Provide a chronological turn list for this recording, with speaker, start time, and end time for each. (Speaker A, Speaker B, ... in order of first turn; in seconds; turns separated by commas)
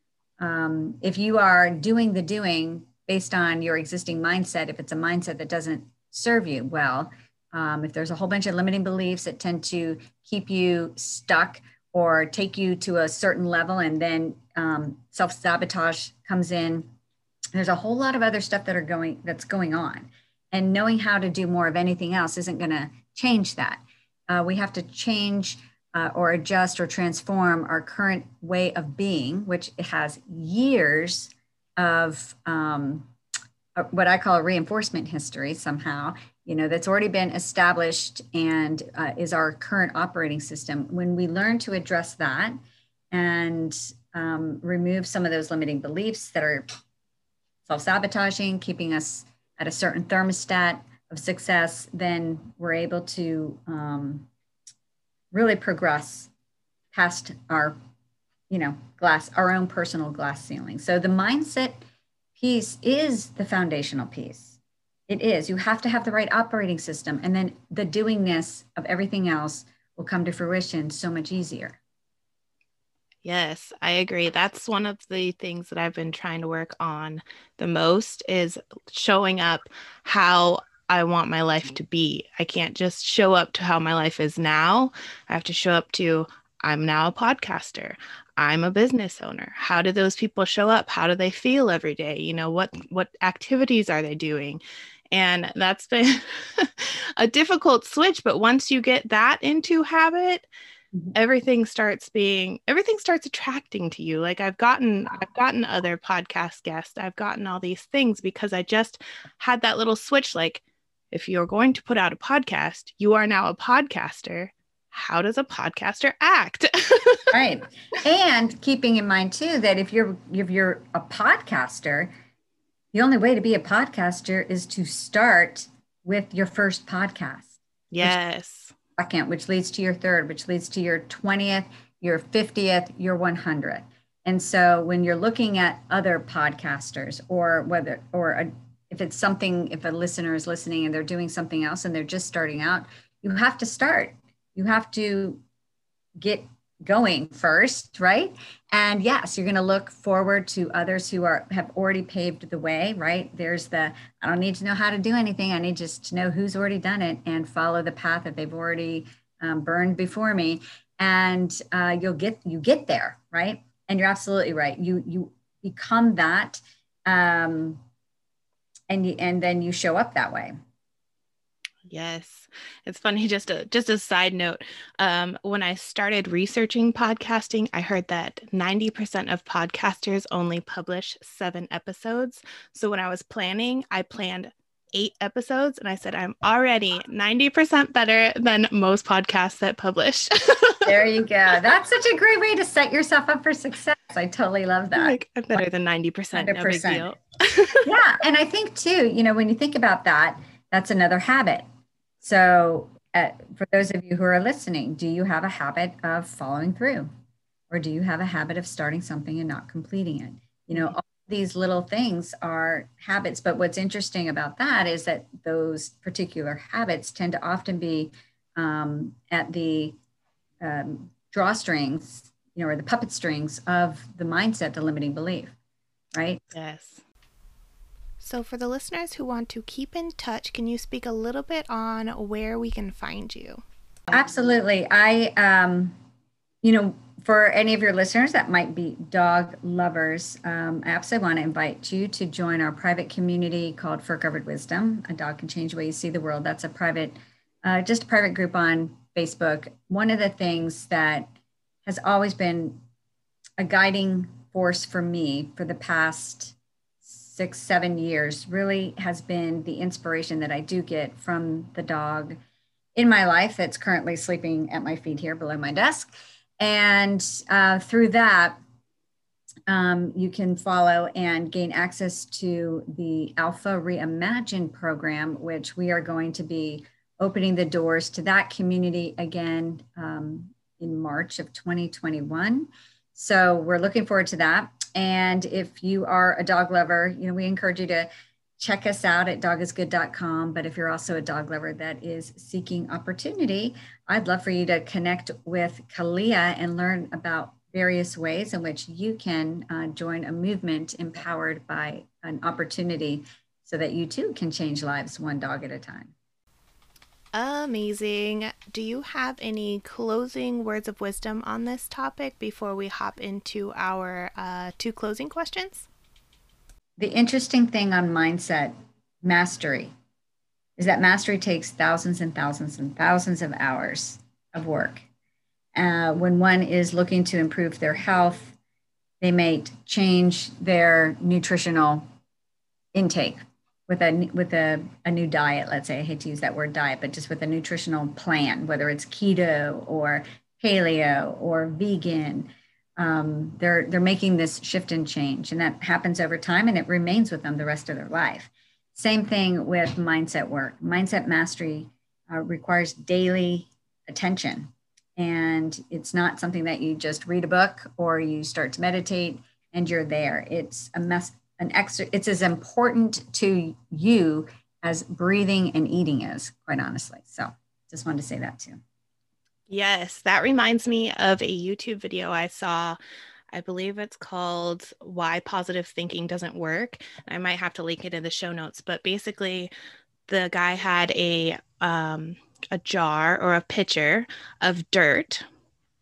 Speaker A: 0.4-16.9, Speaker A: 17.5-33.1, Speaker A: 33.8-42.6, Speaker A: 43.1-46.7, Speaker A: 47.7-54.3, Speaker A: 55.3-56.3, Speaker A: 56.9-57.8, Speaker A: 58.5-61.9, Speaker A: 62.4-64.6, Speaker A: 65.1-71.8, Speaker B: 73.2-94.6, Speaker B: 95.1-100.5, Speaker B: 101.1-117.3, Speaker A: 117.3-122.1, Speaker A: 122.9-128.2, Speaker B: 127.9-128.7, Speaker A: 129.0-145.4, Speaker A: 146.2-167.8, Speaker A: 168.9-170.5, Speaker B: 171.9-190.9, Speaker A: 190.8-195.2, Speaker B: 194.9-197.9, Speaker A: 196.3-197.1, Speaker A: 197.8-201.6, Speaker A: 202.2-207.1, Speaker A: 207.7-220.0, Speaker A: 220.6-225.5, Speaker A: 226.1-226.4, Speaker B: 226.5-227.0, Speaker B: 228.2-233.7, Speaker A: 234.1-236.0, Speaker A: 236.6-251.3, Speaker A: 251.9-252.8, Speaker A: 253.6-262.4, Speaker A: 263.0-268.6, Speaker A: 269.7-306.1, Speaker B: 307.3-315.9, Speaker A: 317.0-319.9, Speaker A: 320.8-325.0, Speaker A: 325.8-328.6, Speaker A: 329.2-332.1, Speaker A: 332.9-368.8, Speaker B: 369.7-373.0, Speaker B: 373.5-379.7, Speaker B: 380.3-385.4